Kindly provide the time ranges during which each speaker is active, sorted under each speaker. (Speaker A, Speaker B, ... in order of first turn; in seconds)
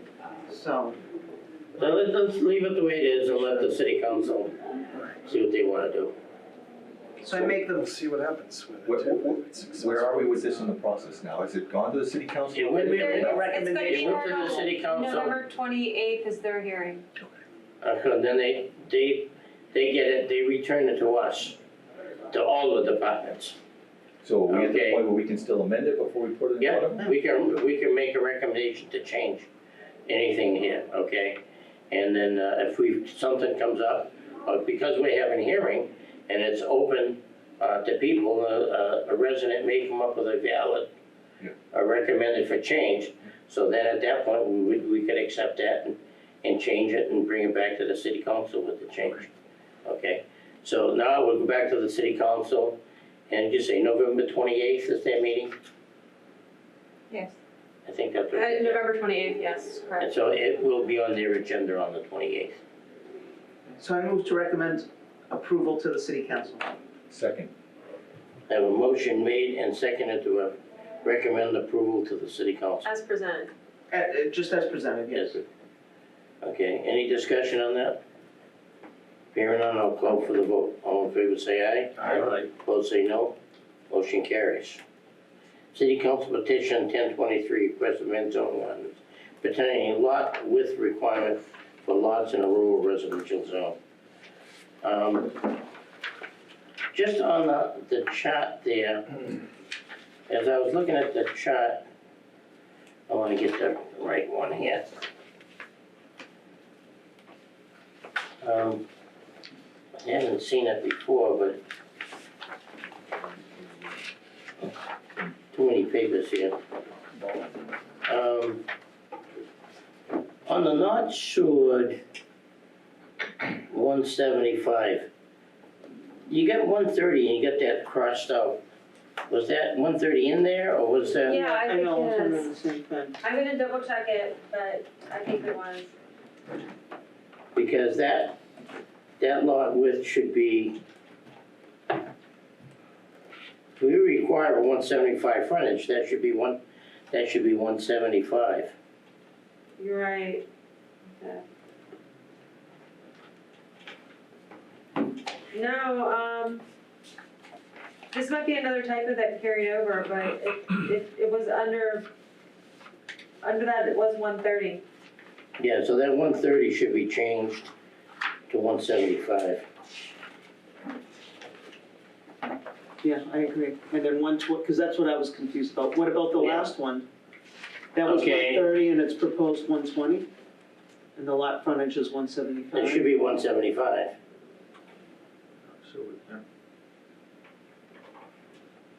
Speaker A: 0.5-1.0, 7.2-7.9, 12.8-14.6, 63.7-66.8, 73.9-75.4, 131.1-133.2, 173.0-177.1, 177.9-180.3, 181.2-183.1
Speaker B: 1.8-4.5, 5.2-6.2, 12.5-15.4, 17.8-21.6, 22.3-23.6, 24.5-25.0, 26.6-29.5, 30.1-40.9, 41.7-49.3, 49.9-52.8, 53.3-55.5, 57.9-58.8, 60.0-62.6, 68.5-72.9, 75.1-75.4, 76.4-78.0, 79.3-83.3, 83.9-84.8, 85.7-93.8, 94.8-95.5, 96.9-99.2, 100.3-101.8, 103.1-104.9, 108.4-108.8, 110.0-111.6, 115.5-116.6, 118.1-118.6, 120.5-122.0, 123.7-125.1, 126.3-128.6, 129.3-131.4, 137.6-138.4, 139.2-140.8, 143.8-148.7, 165.6-167.7, 168.5-169.6, 176.4-176.7, 178.1-178.7, 182.7-184.1
Speaker C: 7.6-10.2
Speaker D: 8.9-13.4, 24.2-27.1, 67.1-67.5, 82.0-82.3, 185.7-186.4
Speaker E: 12.9-17.1, 58.3-60.1, 72.8-73.5, 131.2-132.5, 133.2-135.9, 149.8-150.4, 151.2-151.4, 155.5-156.6, 158.1-162.1, 163.4-164.8